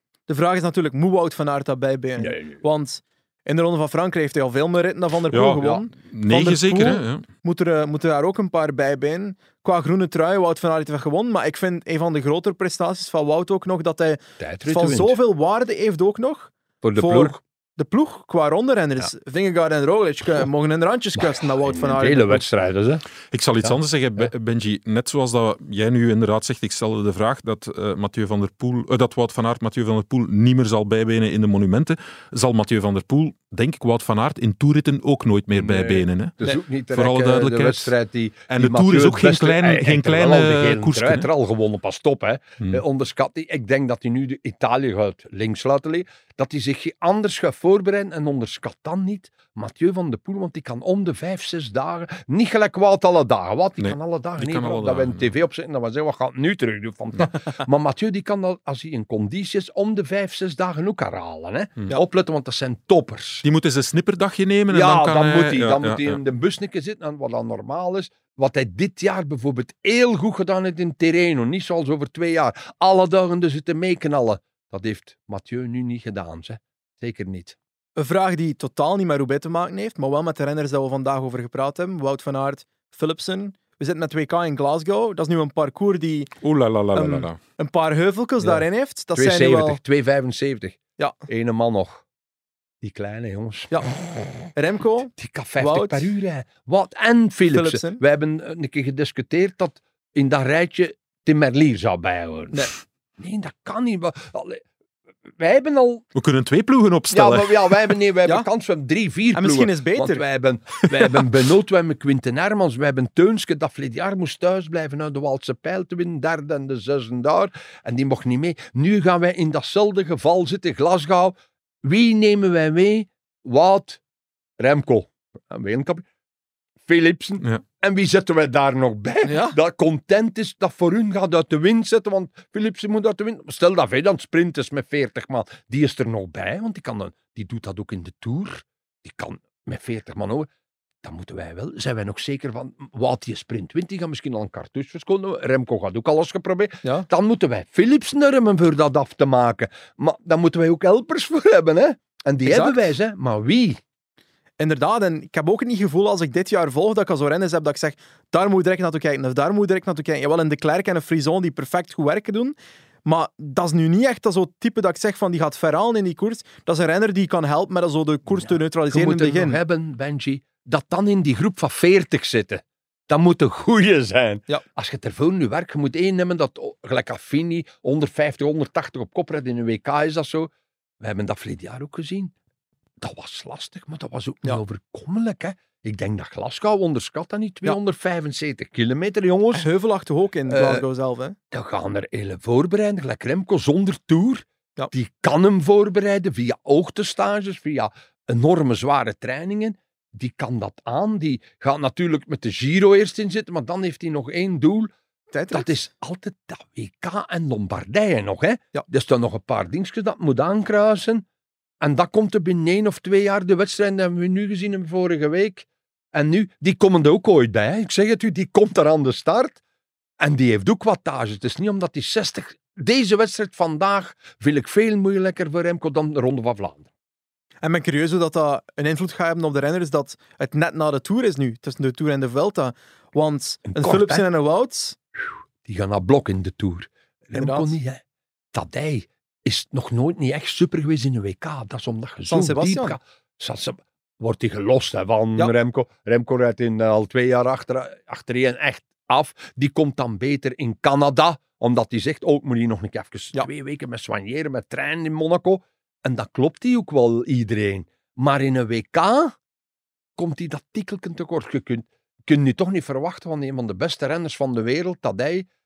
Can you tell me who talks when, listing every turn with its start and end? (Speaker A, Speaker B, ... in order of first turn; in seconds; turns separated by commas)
Speaker A: 0.3-22.4, Speaker B: 2.2-2.6, Speaker C: 5.3-7.2, Speaker B: 14.4-15.1, Speaker B: 16.8-17.4, Speaker B: 21.2-23.0, Speaker C: 23.3-36.4, Speaker B: 35.5-63.4, Speaker C: 36.9-37.9, Speaker C: 38.5-41.3, Speaker C: 53.8-55.3, Speaker C: 63.4-66.2, Speaker B: 64.7-77.5, Speaker A: 78.0-86.4, Speaker C: 86.4-87.4, Speaker A: 86.9-89.8, Speaker B: 89.1-92.0, Speaker B: 92.8-94.3, Speaker A: 94.5-96.1, Speaker B: 95.2-104.6, Speaker A: 97.5-98.0, Speaker B: 105.4-106.0, Speaker C: 106.1-107.8, Speaker B: 107.1-124.0, Speaker A: 109.3-110.2, Speaker B: 124.6-126.0, Speaker B: 126.8-140.5, Speaker A: 129.2-129.6, Speaker B: 141.0-153.8, Speaker A: 152.4-152.8, Speaker A: 154.6-169.6, Speaker B: 168.3-180.5, Speaker B: 181.0-182.3, Speaker B: 183.0-189.7, Speaker A: 189.5-191.4, Speaker B: 190.4-190.9, Speaker B: 191.5-204.9, Speaker A: 205.3-205.8, Speaker B: 205.5-211.2, Speaker B: 211.8-219.6, Speaker B: 220.2-226.9, Speaker A: 227.6-235.0, Speaker B: 233.7-234.2, Speaker B: 235.7-238.0, Speaker A: 237.4-237.7, Speaker B: 238.5-259.3, Speaker A: 242.3-243.0, Speaker B: 260.1-265.5